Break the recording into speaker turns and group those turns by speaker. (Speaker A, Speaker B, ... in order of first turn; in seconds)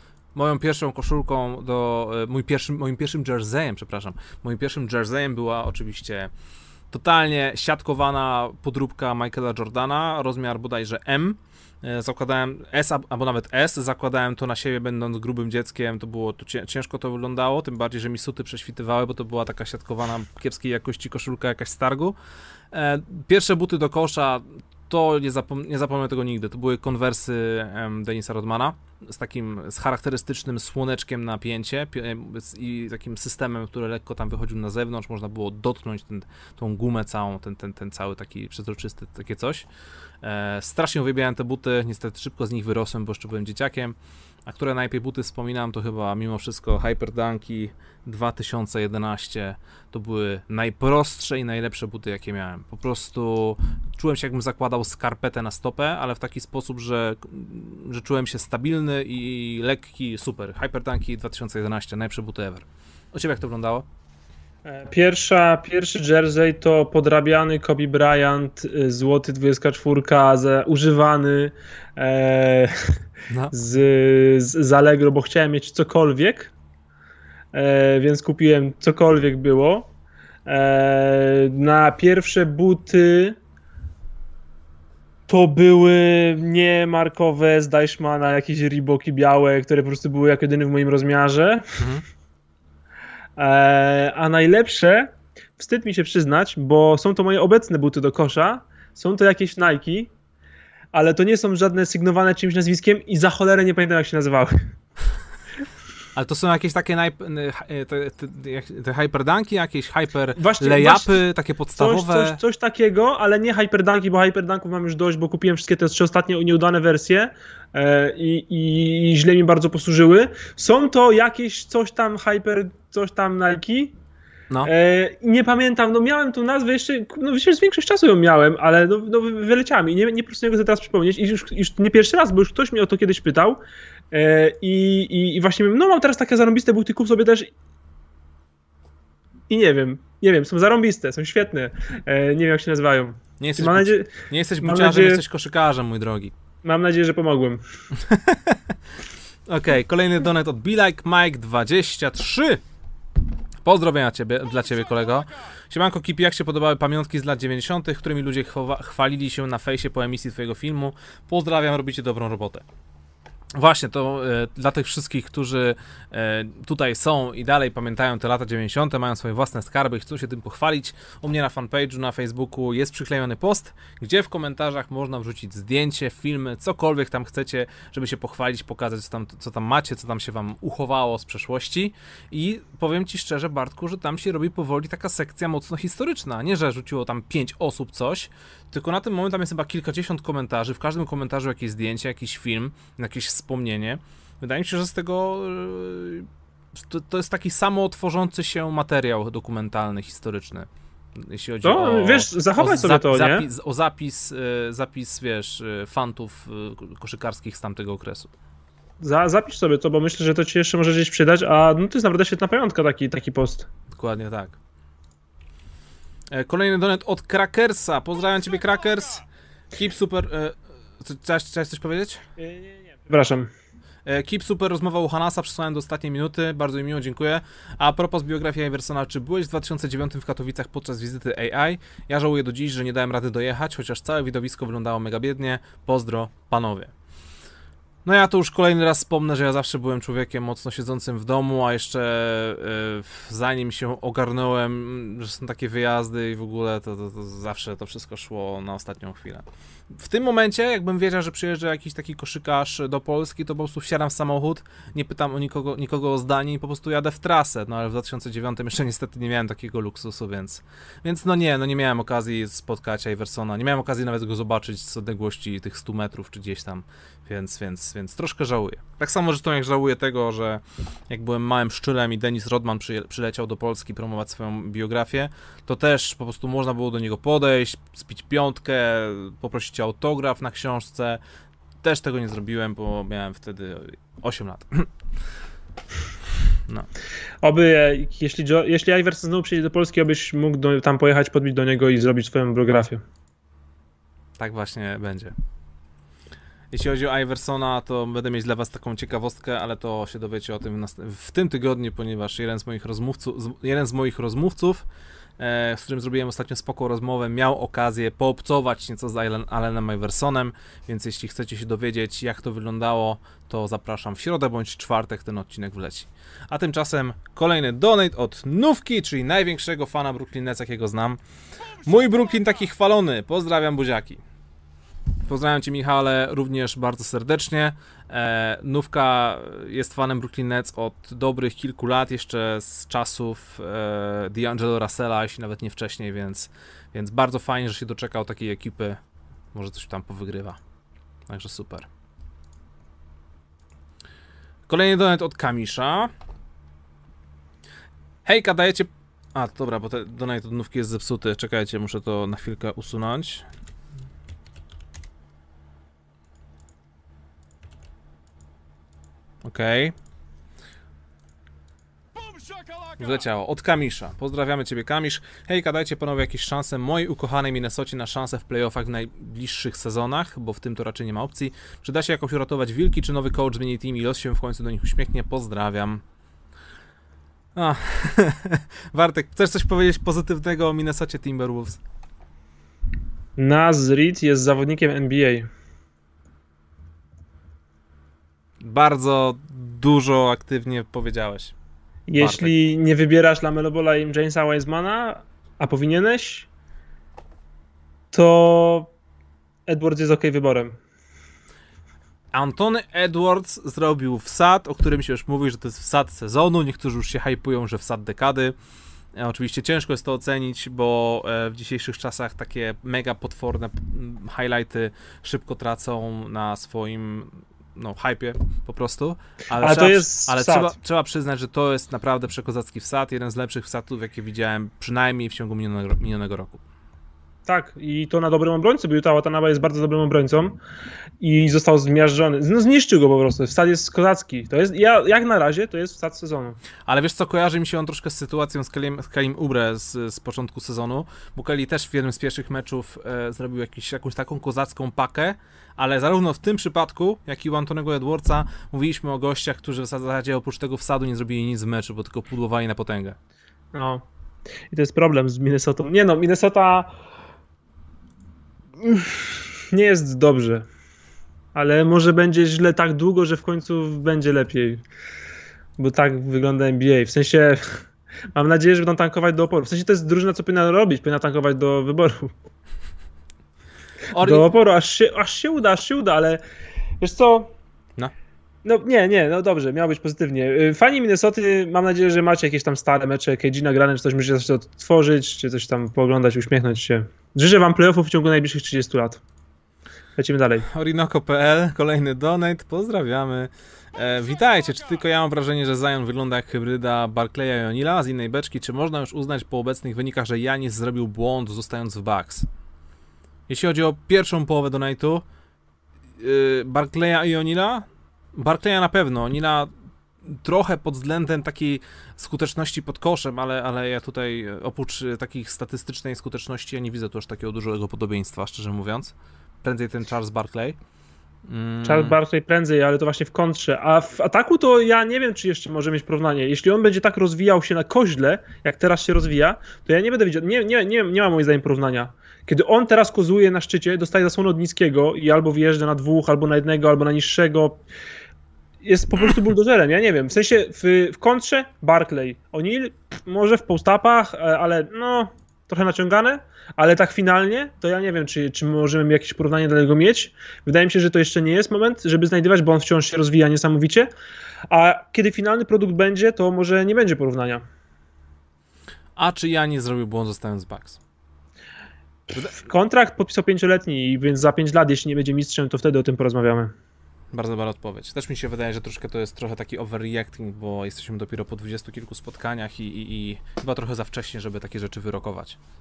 Speaker A: 0.3-6.3, 6.9-22.1, 22.7-39.7, 40.2-63.8, 106.1-112.4, 143.4-146.3, 147.9-148.7, 149.5-152.6, 153.6-162.6, 163.5-208.3, 213.9-214.6, 216.3-219.2, 219.8-222.2, 224.0-236.9, 238.0-281.2, 281.8-284.9, 294.4-295.3, 296.7-304.9, 305.4-321.2, 321.8-324.2, 325.2-339.0, 339.5-340.6, 341.3-341.9, 344.7-346.1, 348.2-353.5, 359.4-359.9, 363.0-376.0, 377.5-381.8, 388.6-391.5, 392.2-392.5, 402.3-408.5, 409.1-426.6, 436.9-453.2, 474.1-474.5, 490.6-502.5, 503.5-505.2, 506.2-509.7, 510.2-520.8, 521.4-522.1, 559.1-561.0, 567.3-575.6
Speaker B: 64.6-72.7, 73.5-76.5, 77.5-79.9, 80.5-83.4, 85.3-91.8, 93.4-100.1, 100.9-104.7, 110.3-123.9, 124.6-133.6, 134.1-137.5, 139.5-145.2, 146.6-147.6, 201.6-203.5, 209.0-213.7, 222.4-223.5, 287.4-293.0, 383.4-385.5, 392.1-396.5, 398.1-398.9, 399.7-400.7, 419.6-420.7, 427.5-430.6, 431.2-436.6, 453.7-454.0, 454.7-456.9, 458.8-460.6, 461.5-464.8, 465.8-472.3, 474.1-476.4, 477.0-477.5, 478.6-489.2, 490.2-490.7, 521.8-537.8, 538.8-554.1, 554.7-557.6, 562.3-566.7